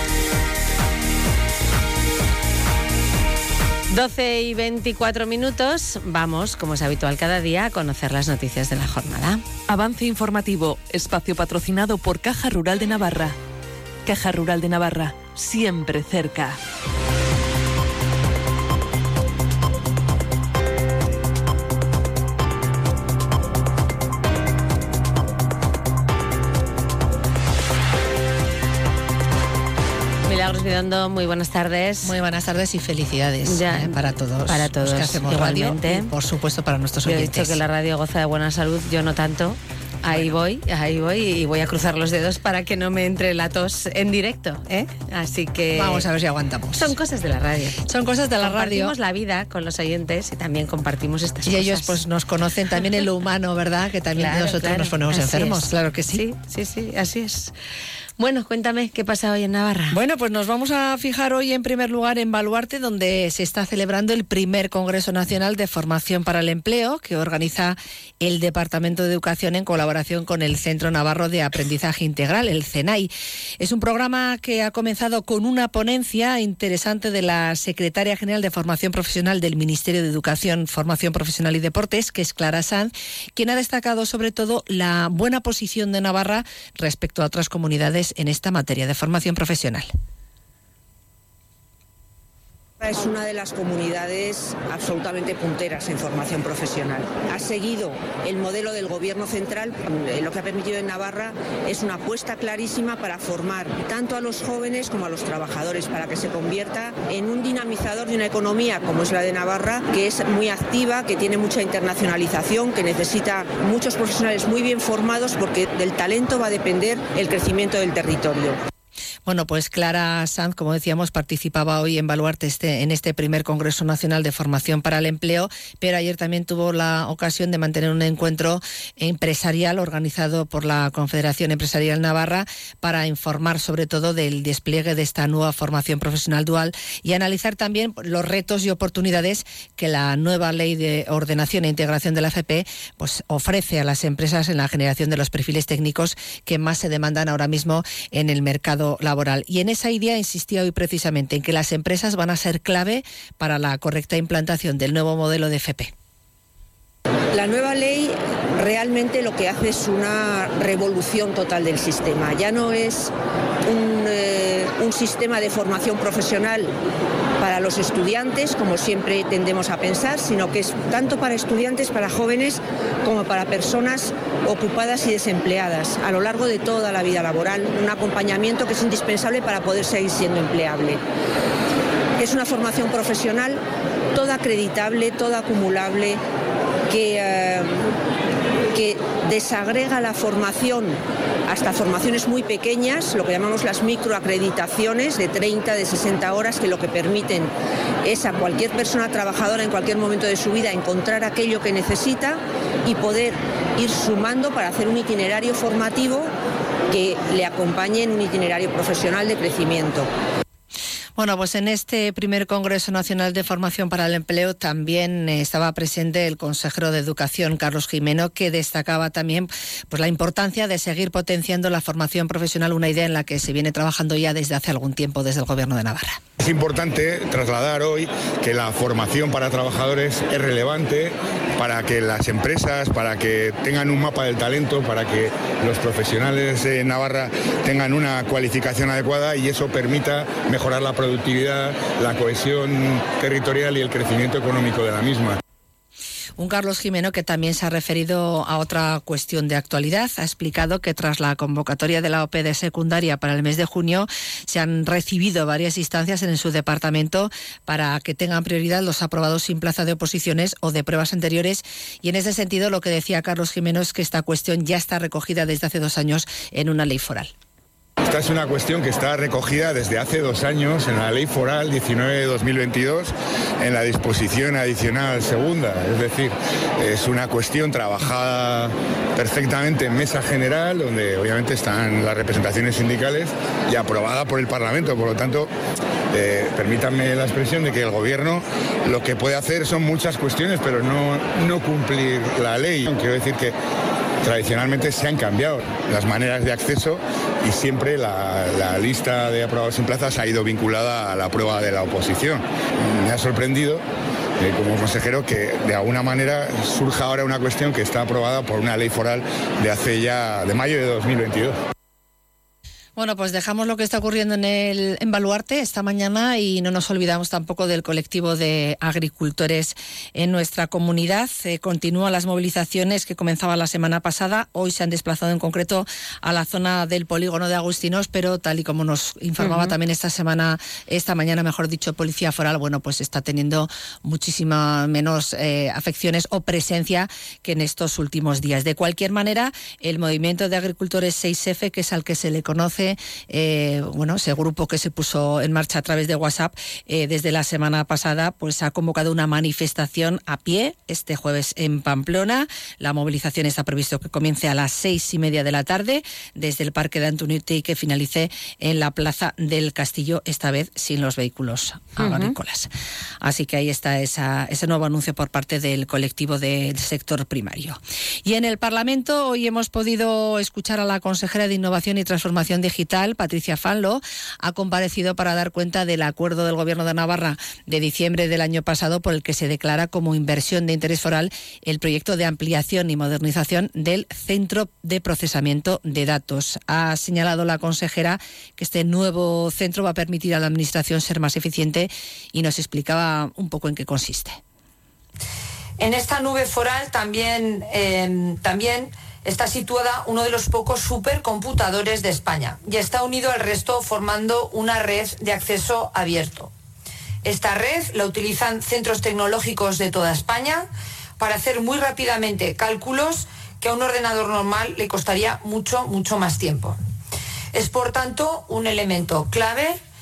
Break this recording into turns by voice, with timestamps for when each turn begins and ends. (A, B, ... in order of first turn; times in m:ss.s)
0:03.9-0:09.4 A
0:09.7-0:13.4 B
0:14.1-0:16.6 B
0:30.2-0:32.2 A
0:32.0-0:37.6 C
0:33.4-0:36.1 A
0:37.0-0:46.1 A
0:45.7-0:46.9 C
0:46.8-0:47.8 A
0:47.8-0:49.0 C
0:48.4-0:52.0 A
0:51.4-0:56.2 C
0:54.1-0:57.5 A
0:58.2-1:00.0 A
0:59.9-1:29.9 C
1:32.8-1:58.6 D
1:59.2-2:35.9 C
2:37.3-2:43.1 D
2:43.7-2:46.7 D
2:47.4-3:01.0 D
3:02.2-3:03.6 D
3:04.1-3:06.2 D
3:06.9-3:07.8 D
3:08.7-3:17.5 D
3:18.0-3:26.3 D
3:26.9-3:30.1 D
3:31.2-3:46.2 C
3:46.4-4:05.4 E
4:06.4-4:27.3 C
4:28.0-4:45.5 E
4:46.1-4:53.6 E
4:54.2-5:03.8 E
5:04.4-5:11.6 E
5:13.0-6:02.7 C
5:29.4-5:29.7 A
6:02.0-6:02.3 A
6:03.2-6:34.4 C
6:35.8-6:46.5 F
6:47.2-6:50.7 F
6:51.2-6:56.8 F
6:57.5-6:59.8 F